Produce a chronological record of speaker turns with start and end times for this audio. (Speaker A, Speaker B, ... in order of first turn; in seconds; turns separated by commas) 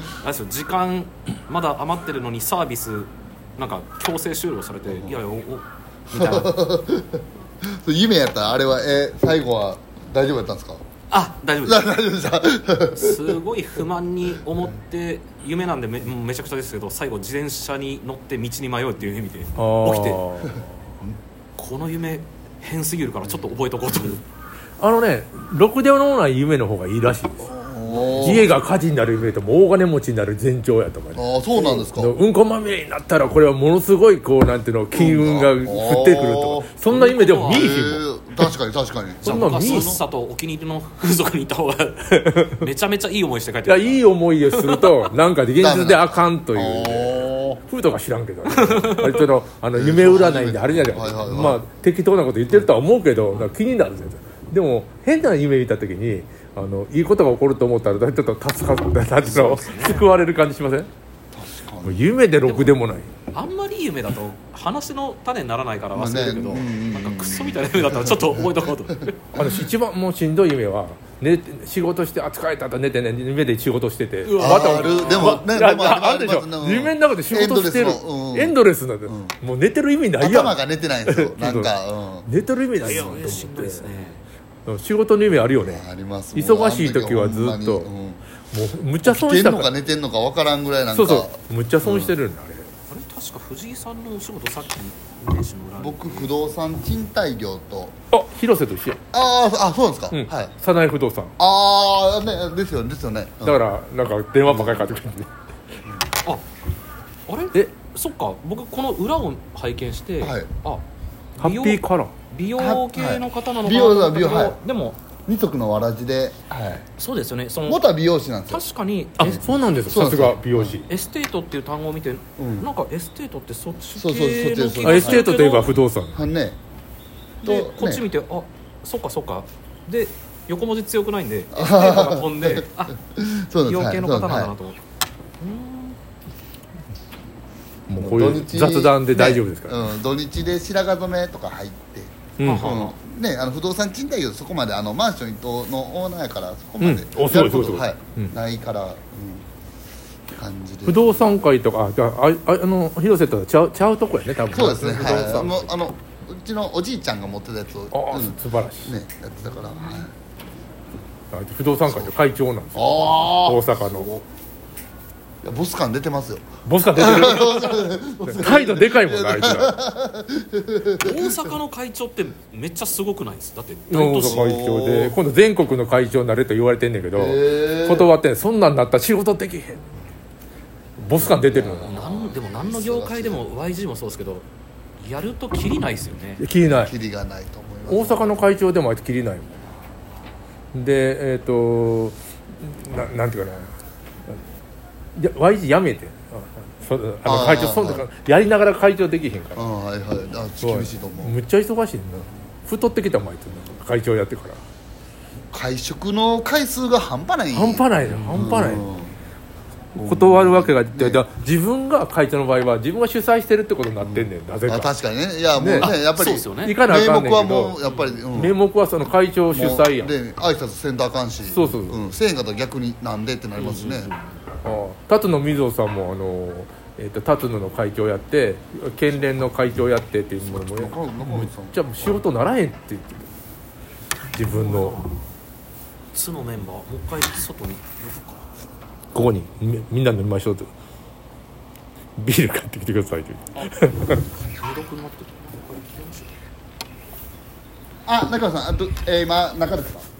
Speaker A: 0.2-6.5, Speaker B: 4.9-5.2, Speaker B: 6.1-10.8, Speaker A: 11.1-11.9, Speaker B: 11.6-13.4, Speaker A: 12.9-20.2, Speaker C: 19.6-20.7, Speaker B: 20.5-21.1, Speaker A: 21.6-24.2, Speaker C: 24.8-27.5, Speaker B: 27.4-28.5, Speaker A: 27.9-28.5, Speaker C: 28.2-38.1, Speaker B: 31.1-32.1, Speaker B: 34.9-36.7, Speaker A: 36.9-37.8, Speaker B: 37.5-40.0, Speaker C: 39.2-40.0, Speaker A: 39.2-45.1, Speaker C: 42.1-42.6, Speaker C: 43.7-60.9, Speaker B: 45.6-47.6, Speaker A: 48.5-49.2, Speaker B: 49.7-51.6, Speaker A: 59.2-60.1, Speaker B: 59.2-59.5, Speaker B: 61.3-62.1, Speaker C: 61.9-63.1, Speaker A: 62.4-62.8, Speaker A: 63.3-69.2, Speaker B: 65.9-68.7, Speaker B: 69.3-69.7, Speaker C: 69.3-81.7, Speaker A: 74.2-75.4, Speaker B: 74.4-79.3, Speaker B: 80.2-82.3, Speaker C: 82.2-83.9, Speaker A: 82.8-84.2, Speaker C: 84.7-87.9, Speaker B: 85.5-88.2, Speaker C: 88.5-89.7, Speaker B: 89.0-92.2, Speaker C: 90.9-92.7, Speaker A: 92.9-96.3, Speaker B: 95.8-98.0, Speaker C: 98.1-99.0, Speaker B: 99.1-100.5, Speaker C: 100.1-101.3, Speaker B: 101.4-103.6, Speaker C: 103.4-105.3, Speaker B: 104.5-105.0, Speaker A: 107.3-110.8, Speaker B: 110.2-110.5, Speaker A: 111.4-115.0, Speaker C: 111.4-112.1, Speaker B: 112.6-114.6, Speaker B: 115.3-116.9, Speaker A: 117.0-117.8, Speaker B: 117.7-118.6, Speaker A: 118.5-119.4, Speaker B: 119.2-120.8, Speaker C: 119.2-120.9, Speaker A: 120.9-125.7, Speaker B: 122.4-122.7, Speaker B: 124.0-125.6, Speaker C: 124.8-126.2, Speaker B: 126.1-126.6, Speaker B: 127.4-128.1, Speaker A: 127.4-133.0, Speaker B: 131.5-134.5, Speaker A: 133.7-134.8, Speaker A: 135.4-136.0, Speaker C: 137.9-139.8, Speaker B: 138.0-149.4, Speaker C: 142.4-142.7, Speaker A: 142.4-142.9, Speaker C: 146.8-148.3, Speaker B: 150.3-151.3, Speaker C: 150.8-155.7, Speaker B: 154.5-160.1, Speaker C: 157.9-159.0, Speaker C: 161.3-164.2, Speaker B: 162.8-164.2, Speaker B: 165.4-171.5, Speaker C: 166.7-169.8, Speaker A: 171.0-174.4, Speaker C: 173.9-179.8, Speaker B: 174.2-175.2, Speaker B: 177.2-178.1, Speaker C: 181.0-181.9, Speaker B: 181.3-183.5, Speaker A: 181.8-184.5, Speaker A: 185.0-186.4, Speaker C: 186.4-186.9, Speaker B: 186.6-188.4, Speaker C: 187.9-189.6, Speaker C: 190.7-193.7, Speaker C: 195.2-199.7, Speaker B: 197.2-198.1, Speaker B: 199.6-201.4, Speaker C: 200.6-204.6, Speaker B: 205.5-209.2, Speaker C: 207.5-208.9, Speaker A: 208.1-208.5, Speaker B: 209.9-211.2, Speaker C: 210.0-214.9, Speaker B: 214.0-218.6, Speaker C: 215.5-215.9, Speaker A: 215.8-216.8, Speaker C: 216.6-217.8, Speaker A: 217.8-218.2, Speaker C: 218.3-220.1, Speaker B: 219.5-224.1, Speaker C: 221.4-222.0, Speaker A: 223.6-224.4, Speaker C: 224.6-233.3, Speaker B: 230.5-232.2, Speaker C: 234.3-235.0, Speaker A: 234.5-235.2, Speaker A: 236.1-238.4, Speaker C: 239.1-240.7, Speaker C: 242.2-244.2, Speaker A: 244.5-246.3, Speaker B: 248.1-250.1